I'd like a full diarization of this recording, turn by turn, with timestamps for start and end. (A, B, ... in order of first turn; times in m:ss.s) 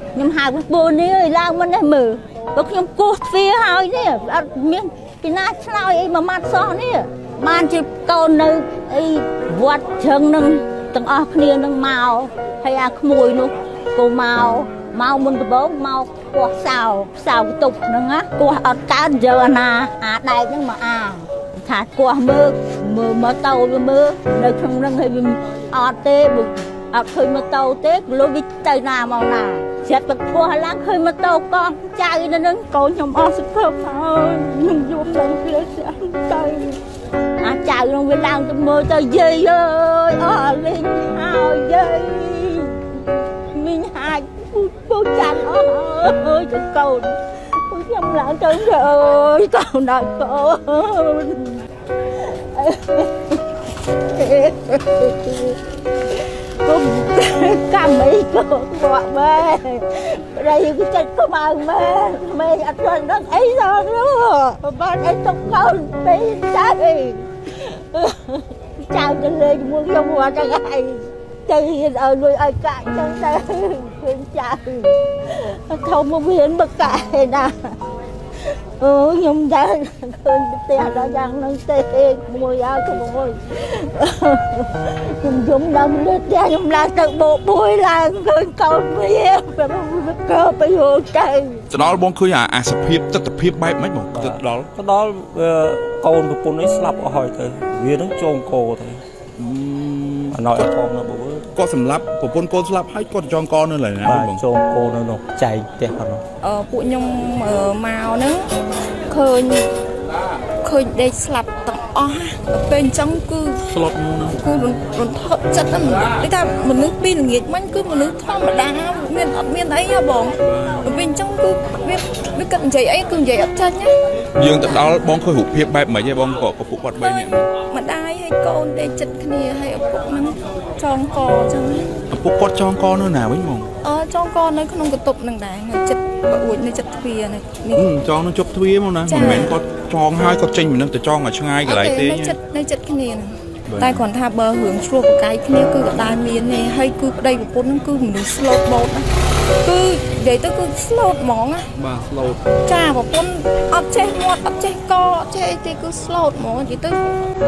0:00.1-0:36.8 A
0:37.4-0:42.8 A
0:43.5-0:51.6 A
0:52.1-0:53.4 A
0:54.1-0:55.6 A
0:56.1-1:17.8 A
1:18.8-1:31.6 A
1:31.7-1:34.7 B
1:34.1-1:39.0 C
1:39.4-1:40.4 B
1:40.3-1:41.5 C
1:41.6-1:44.4 B
1:44.0-1:46.2 C
1:46.4-1:48.4 D
1:49.1-1:49.7 D
1:50.6-1:53.6 D
1:53.7-1:54.4 B
1:54.4-2:03.9 D
2:00.4-2:01.0 B
2:04.4-2:07.5 B
2:07.0-2:11.9 D
2:12.1-2:13.7 B
2:13.8-2:17.9 D
2:17.8-2:22.4 B
2:19.1-2:19.6 D
2:21.6-2:29.0 D
2:23.7-2:24.0 B
2:29.6-2:31.7 D
2:31.8-2:32.4 B
2:32.7-2:37.0 D